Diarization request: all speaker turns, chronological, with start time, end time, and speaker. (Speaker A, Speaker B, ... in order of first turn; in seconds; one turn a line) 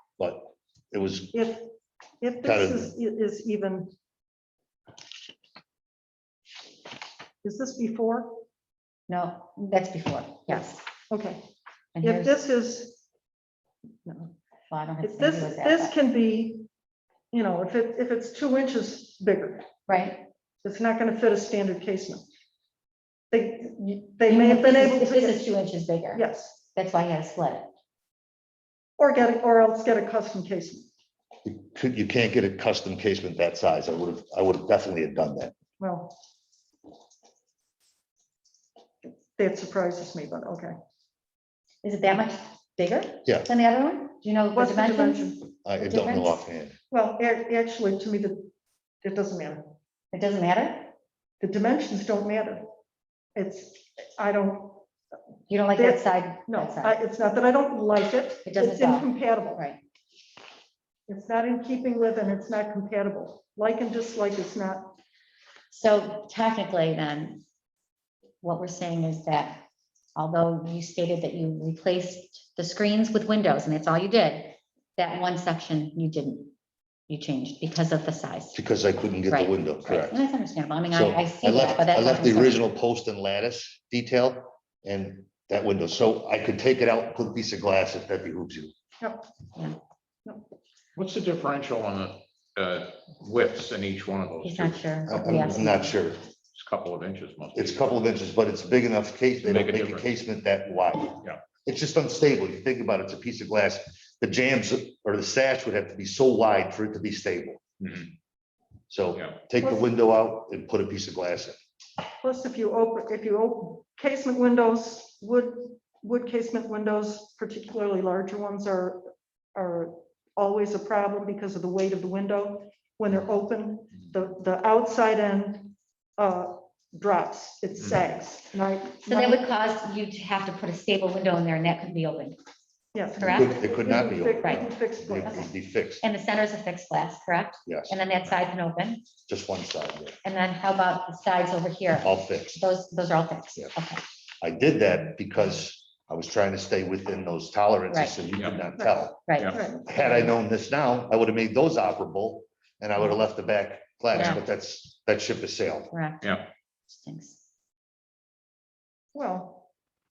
Speaker A: 0.2-1.4
Speaker B: 1.3-1.7
Speaker B: 2.2-3.9
Speaker A: 2.4-3.0
Speaker B: 7.4-8.4
Speaker C: 9.1-10.8
Speaker B: 11.1-11.5
Speaker C: 11.9-12.4
Speaker B: 12.0-13.0
Speaker B: 14.1-14.3
Speaker C: 14.7-15.9
Speaker B: 15.0-16.7
Speaker B: 17.3-19.7
Speaker C: 19.9-20.3
Speaker B: 20.6-22.2
Speaker B: 23.3-25.4
Speaker C: 24.3-27.7
Speaker B: 26.1-26.6
Speaker B: 29.0-30.9
Speaker A: 31.4-35.5
Speaker B: 35.8-36.1
Speaker B: 39.4-40.8
Speaker C: 41.8-46.5
Speaker B: 44.5-45.4
Speaker A: 45.6-46.8
Speaker B: 46.9-48.5
Speaker B: 49.0-49.7
Speaker C: 50.1-50.9
Speaker B: 51.4-52.7
Speaker B: 53.4-54.9
Speaker C: 55.5-57.0
Speaker B: 55.7-59.6
Speaker C: 58.4-59.8
Speaker B: 61.1-64.9
Speaker C: 65.7-67.4
Speaker C: 68.4-69.6
Speaker C: 70.2-76.5
Speaker C: 77.1-78.6
Speaker A: 78.5-80.2
Speaker C: 79.3-82.7
Speaker A: 80.9-88.7
Speaker B: 89.0-89.3
Speaker D: 91.0-94.9
Speaker C: 94.4-96.0
Speaker A: 95.1-96.2
Speaker D: 96.5-97.9
Speaker A: 97.5-107.6
Speaker D: 99.4-100.1
Speaker D: 107.8-108.1
Speaker A: 108.9-111.6
Speaker B: 112.2-129.4
Speaker C: 129.1-132.4
Speaker B: 132.9-135.5
Speaker C: 133.2-133.6
Speaker A: 133.2-136.1
Speaker C: 134.4-134.7
Speaker C: 135.2-135.5
Speaker C: 136.0-139.1
Speaker A: 137.7-137.9
Speaker A: 139.3-140.2
Speaker C: 140.2-144.0
Speaker A: 142.0-142.6
Speaker A: 144.4-149.2
Speaker C: 147.9-148.2
Speaker D: 148.3-148.7
Speaker C: 149.3-150.3
Speaker D: 149.4-149.6
Speaker B: 149.5-149.9
Speaker A: 149.9-155.9
Speaker C: 154.1-154.4
Speaker C: 155.9-157.4
Speaker B: 159.1-159.6